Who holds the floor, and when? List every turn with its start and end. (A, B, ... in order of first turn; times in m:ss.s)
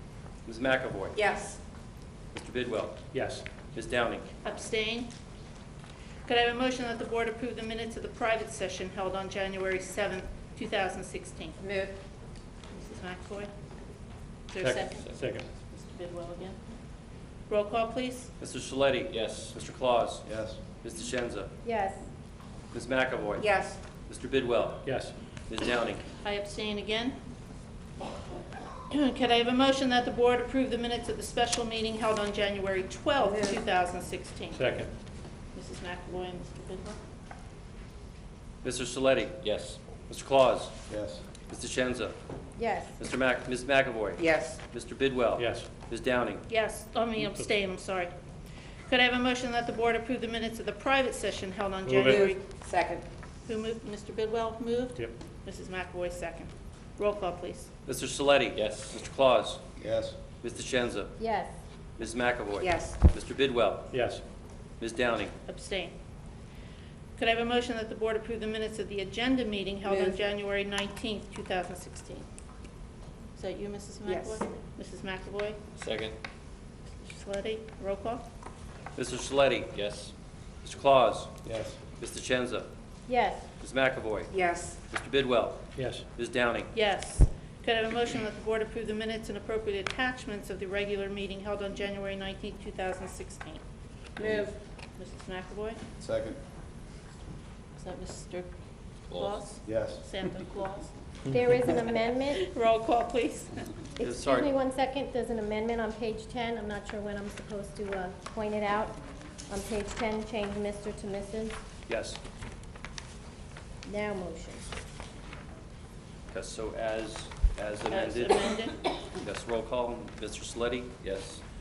0:00.4-0:01.2 A
0:01.1-0:01.6 B
0:02.3-0:03.1 A
0:03.1-0:03.4 C
0:03.6-0:04.3 A
0:04.4-0:05.1 D
0:06.2-0:11.6 D
0:11.6-0:11.9 B
0:12.7-0:13.5 D
0:14.5-0:16.6 D
0:14.6-0:15.4 C
0:17.5-0:18.3 D
0:18.4-0:20.2 A
0:20.2-0:20.6 E
0:20.8-0:21.5 A
0:21.6-0:22.0 F
0:22.7-0:24.8 A
0:23.4-0:23.8 B
0:24.8-0:25.1 C
0:25.5-0:26.0 A
0:26.2-0:27.2 D
0:28.9-0:34.8 D
0:33.2-0:33.6 B
0:34.5-0:34.9 C
0:35.5-0:37.0 D
0:38.6-0:40.8 A
0:40.9-0:41.2 E
0:41.5-0:42.2 A
0:42.6-0:43.0 F
0:43.0-0:46.4 A
0:44.2-0:44.6 B
0:45.4-0:45.7 C
0:46.5-0:48.1 D
0:47.2-0:47.5 C
0:48.9-0:52.4 D
0:51.8-0:52.3 C
0:52.0-0:53.0 B
0:53.4-0:57.7 D
0:57.8-0:59.6 A
0:59.8-1:00.2 E
1:00.4-1:01.1 A
1:01.2-1:01.5 F
1:02.0-1:03.9 A
1:02.6-1:03.0 B
1:03.9-1:04.2 C
1:04.8-1:05.4 A
1:05.5-1:05.9 D
1:07.2-1:12.2 D
1:09.8-1:10.2 B
1:13.4-1:15.6 D
1:14.0-1:14.4 B
1:15.8-1:16.2 A
1:17.0-1:18.2 D
1:18.9-1:21.3 A
1:21.4-1:21.8 E
1:22.0-1:22.7 A
1:23.1-1:23.5 F
1:23.6-1:24.4 A
1:24.3-1:24.8 B
1:24.9-1:26.7 A
1:25.7-1:26.1 C
1:26.7-1:33.6 D
1:34.2-1:34.5 A
1:34.2-1:34.5 B
1:35.0-1:35.8 D
1:36.0-1:36.4 E
1:37.8-1:38.5 D
1:39.1-1:39.4 A
1:39.1-1:40.9 D
1:39.6-1:40.0 E
1:41.3-1:42.4 F
1:42.3-1:43.6 D
1:44.0-1:49.0 F
1:44.0-1:44.5 A
1:49.5-1:51.6 F
1:51.9-1:52.2 A
1:53.8-1:54.7 F
1:56.3-1:58.6 A
1:57.9-1:58.8 D
1:59.2-2:01.4 A